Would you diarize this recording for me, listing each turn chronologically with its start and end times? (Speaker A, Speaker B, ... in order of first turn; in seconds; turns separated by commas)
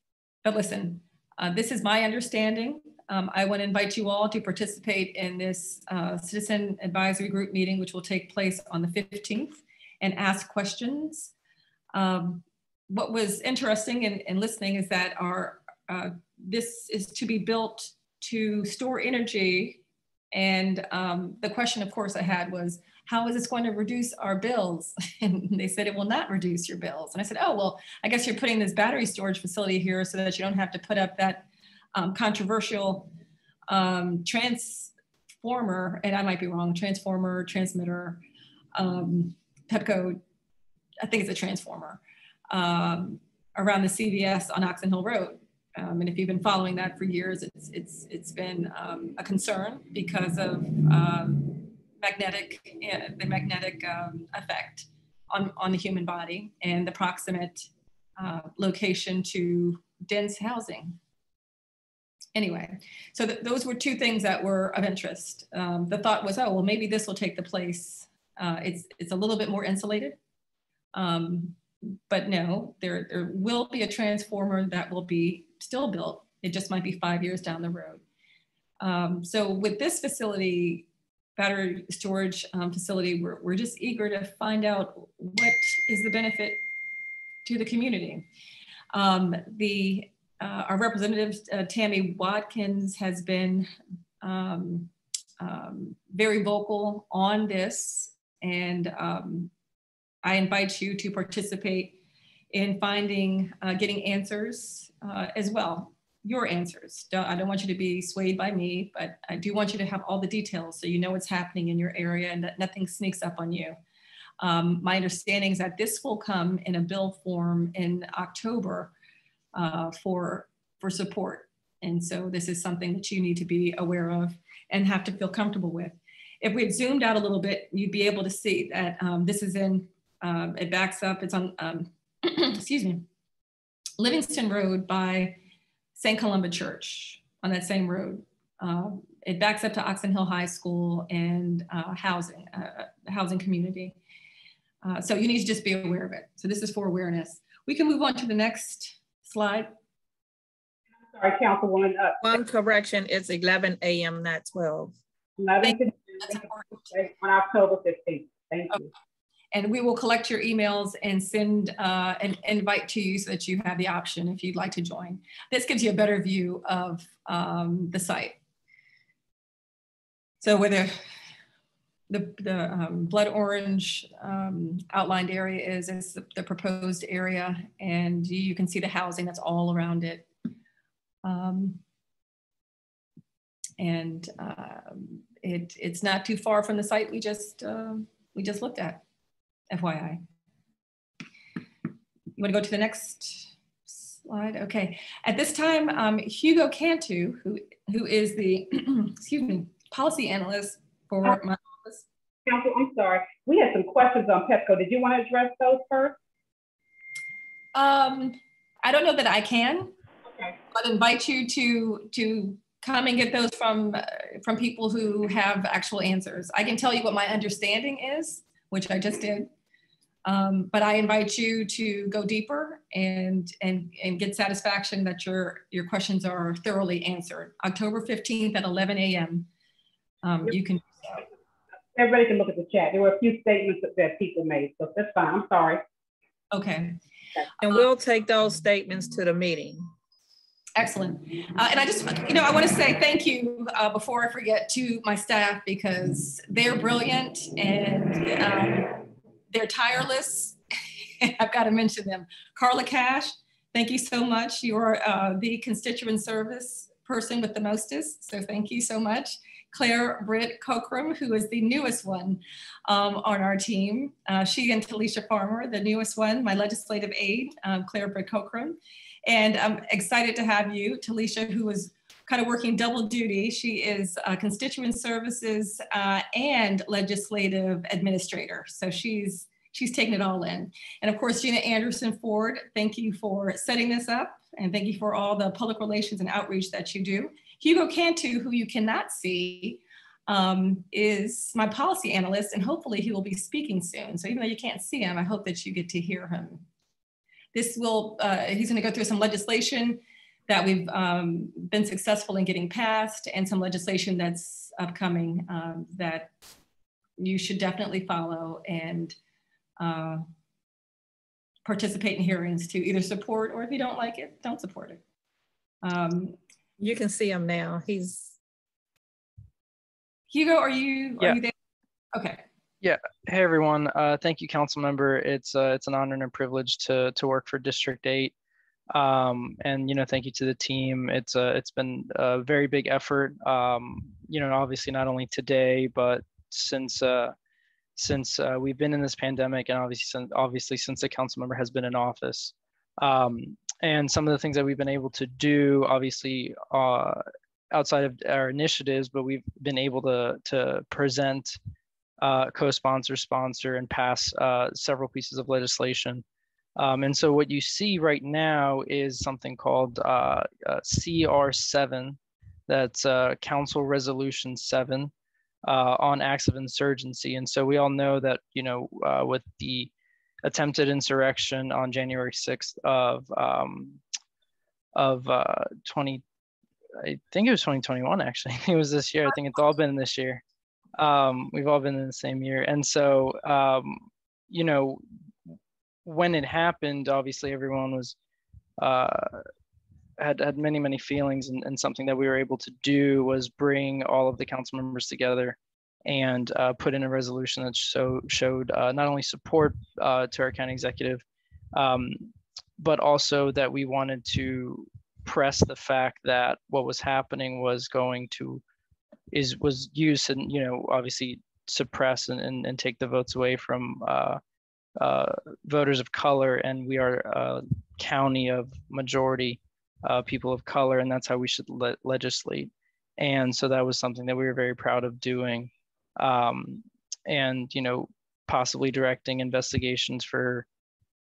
Speaker A: 0.4-11.3, Speaker A: 11.9-19.8, Speaker A: 20.3-33.1, Speaker A: 33.7-34.9, Speaker A: 35.4-38.2, Speaker A: 38.8-40.2, Speaker A: 41.0-61.0, Speaker A: 62.4-70.2, Speaker A: 70.9-71.6, Speaker A: 72.1-78.0, Speaker A: 78.8-80.9, Speaker A: 81.4-86.6, Speaker A: 87.5-88.3, Speaker A: 88.9-93.7, Speaker A: 94.2-99.5, Speaker A: 100.2-102.0, Speaker A: 102.5-113.8, Speaker A: 114.4-118.9, Speaker A: 119.5-133.1, Speaker A: 134.0-135.4, Speaker A: 135.9-144.0, Speaker A: 144.8-149.7, Speaker B: 151.1-152.4, Speaker C: 152.2-154.9, Speaker B: 155.4-158.9, Speaker A: 155.7-156.8, Speaker A: 159.5-168.4, Speaker A: 170.4-171.0, Speaker A: 172.1-180.3, Speaker A: 181.2-181.8, Speaker A: 183.8-189.0, Speaker A: 189.7-190.2, Speaker A: 192.4-193.5, Speaker A: 194.2-202.0, Speaker B: 202.5-206.2, Speaker A: 207.7-209.9, Speaker B: 210.3-210.6, Speaker A: 210.7-219.5, Speaker A: 220.2-229.5, Speaker A: 230.2-231.2, Speaker B: 231.9-235.8, Speaker A: 236.5-237.0, Speaker C: 237.6-239.9, Speaker A: 240.8-250.6, Speaker A: 251.2-296.6, Speaker A: 297.5-306.3, Speaker A: 307.2-309.2, Speaker A: 309.8-310.2, Speaker A: 311.6-315.0, Speaker A: 315.8-316.4, Speaker C: 316.8-318.4, Speaker A: 320.3-321.5, Speaker A: 322.1-322.4, Speaker D: 322.8-328.3, Speaker D: 328.9-337.3, Speaker D: 338.0-351.6, Speaker D: 352.2-356.2, Speaker D: 356.8-365.1, Speaker D: 365.6-369.9, Speaker D: 370.4-374.0, Speaker D: 374.9-376.2, Speaker D: 377.0-380.4, Speaker D: 381.0-385.0, Speaker D: 386.1-388.1, Speaker D: 388.8-389.4, Speaker D: 390.2-401.2, Speaker D: 401.8-408.6, Speaker D: 409.3-414.4, Speaker D: 415.0-430.7